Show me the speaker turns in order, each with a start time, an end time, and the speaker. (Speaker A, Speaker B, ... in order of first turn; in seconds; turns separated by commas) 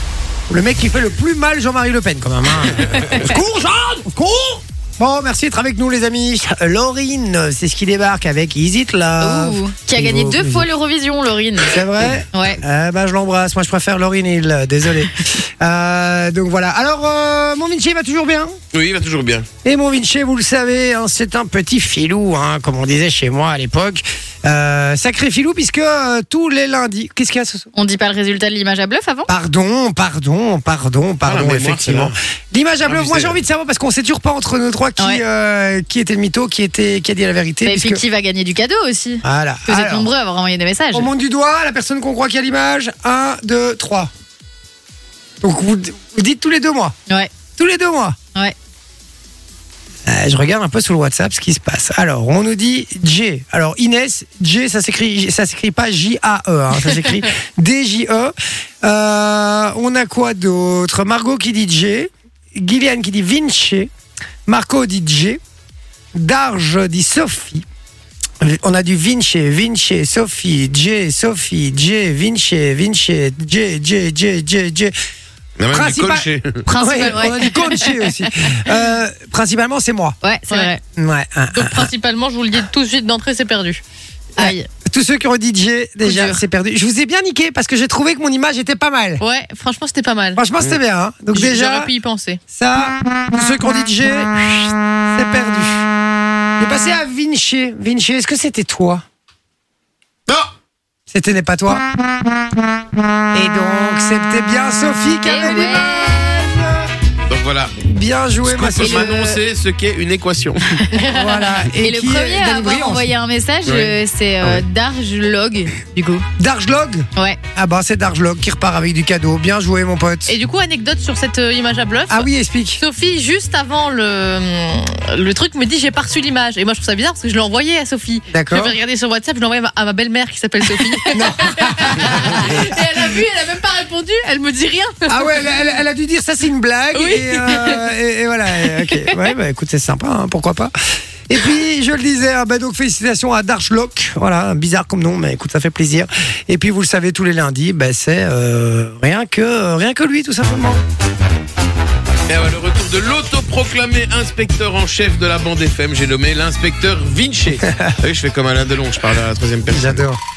Speaker A: 0.5-10.7, Speaker B: 9.2-11.8, Speaker A: 11.7-18.6, Speaker B: 12.3-12.6, Speaker C: 18.7-19.5, Speaker A: 19.6-27.7, Speaker B: 27.8-29.3, Speaker A: 29.3-38.0, Speaker C: 31.2-32.2, Speaker C: 32.9-33.4, Speaker B: 35.0-35.2, Speaker B: 37.6-41.1, Speaker A: 39.2-40.1, Speaker A: 40.9-44.1, Speaker A: 45.4-47.0, Speaker A: 47.6-48.2, Speaker A: 50.1-63.9, Speaker A: 64.5-65.4, Speaker A: 66.1-67.7, Speaker A: 68.4-74.9, Speaker C: 75.6-76.6, Speaker A: 75.7-80.2, Speaker B: 76.7-77.9, Speaker B: 80.2-80.8, Speaker D: 80.5-80.8, Speaker A: 81.0-81.9, Speaker D: 81.5-83.8, Speaker B: 84.4-84.7, Speaker A: 84.4-89.2, Speaker D: 86.0-86.4, Speaker D: 89.2-90.4, Speaker A: 90.3-91.9, Speaker D: 91.3-92.4, Speaker A: 92.5-95.9, Speaker A: 96.6-99.0, Speaker A: 101.1-101.8, Speaker A: 103.3-106.9, Speaker B: 105.2-106.1, Speaker C: 107.3-107.8, Speaker A: 107.8-109.3, Speaker C: 108.4-110.7, Speaker B: 108.8-109.4, Speaker D: 110.9-111.5, Speaker A: 111.1-113.1, Speaker B: 111.8-116.3, Speaker C: 113.7-113.9, Speaker A: 116.4-120.3, Speaker D: 120.3-122.3, Speaker A: 122.1-122.8, Speaker D: 122.8-135.4, Speaker A: 128.3-128.8, Speaker A: 131.1-132.7, Speaker A: 135.1-140.7, Speaker D: 136.9-137.8, Speaker A: 141.3-150.8, Speaker C: 152.3-160.0, Speaker A: 159.7-160.2